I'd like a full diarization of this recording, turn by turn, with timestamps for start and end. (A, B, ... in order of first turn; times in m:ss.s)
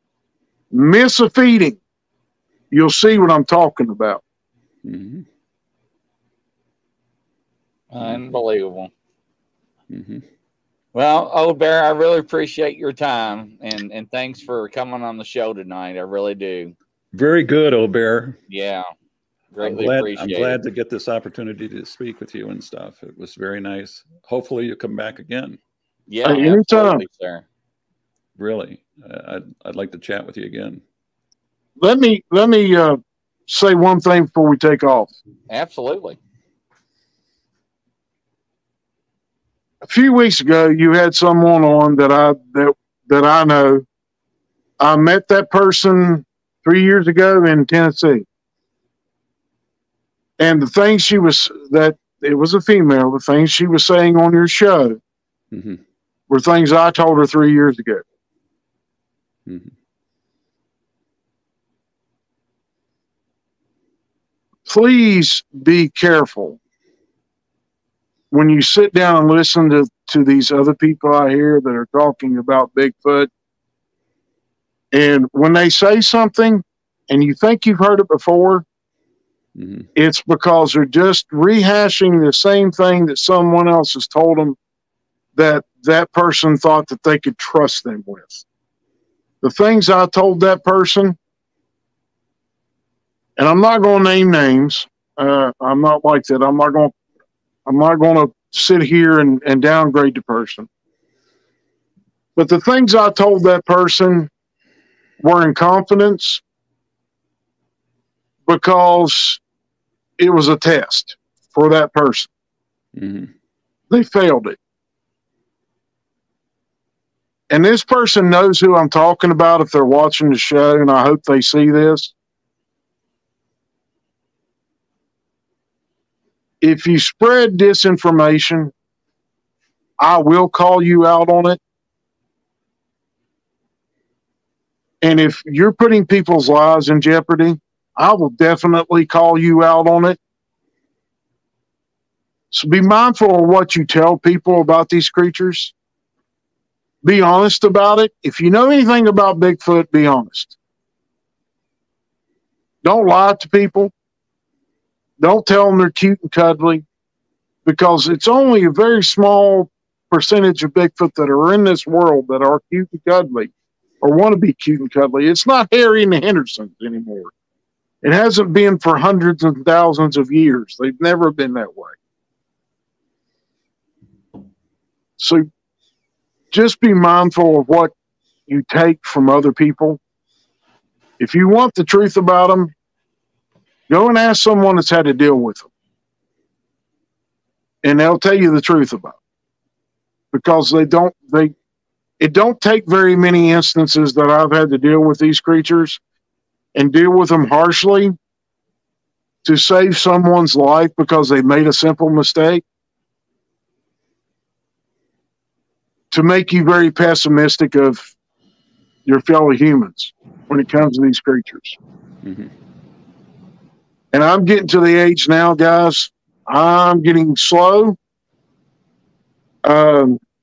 0:00.7-0:01.8 A
0:02.7-0:04.2 A
0:04.8-0:05.3 B
0:07.9-0:08.9 C
0:09.9-0:10.3 B
0:10.9-0:16.7 C
0:17.1-0:18.4 B
0:18.5-0:18.8 C
0:19.5-0:20.6 C
0:19.6-0:25.6 B
0:26.1-0:27.4 C
0:26.2-0:27.0 A
0:28.4-0:30.8 B
0:31.8-0:35.1 A
0:35.5-0:36.2 C
0:39.8-0:43.8 A
0:44.8-0:48.2 A
0:50.4-0:55.0 A
0:55.5-0:55.8 B
0:56.3-0:58.0 A
0:59.4-0:59.7 B
1:04.6-1:06.6 A
1:08.3-1:13.3 A
1:14.9-1:18.6 A
1:19.6-1:19.9 B
1:20.0-1:24.6 A
1:25.3-1:28.4 A
1:29.4-1:31.2 A
1:33.4-1:36.9 A
1:37.6-1:40.7 A
1:42.4-1:44.3 A
1:45.2-1:46.4 A
1:48.5-1:49.4 A
1:50.2-1:52.3 A
1:52.9-1:53.3 B
1:53.9-1:54.6 A
1:57.5-2:02.1 A
2:06.6-2:08.7 A
2:10.0-2:11.6 A
2:15.0-2:20.2 A
2:22.5-2:25.7 A
2:27.0-2:30.6 A
2:32.8-2:33.9 A
2:35.2-2:36.8 A
2:37.6-2:47.3 A
2:48.0-2:52.0 A
2:55.2-2:55.4 A
2:56.5-2:57.9 A
2:58.5-3:00.0 A
3:01.2-3:02.7 A
3:03.9-3:05.7 A
3:07.8-3:09.2 A
3:10.3-3:11.5 A
3:12.2-3:16.0 A
3:16.7-3:18.1 A
3:19.4-3:22.6 A
3:26.1-3:28.0 A
3:29.0-3:31.8 A
3:32.2-3:32.5 B
3:34.1-3:38.0 A
3:39.6-3:40.2 A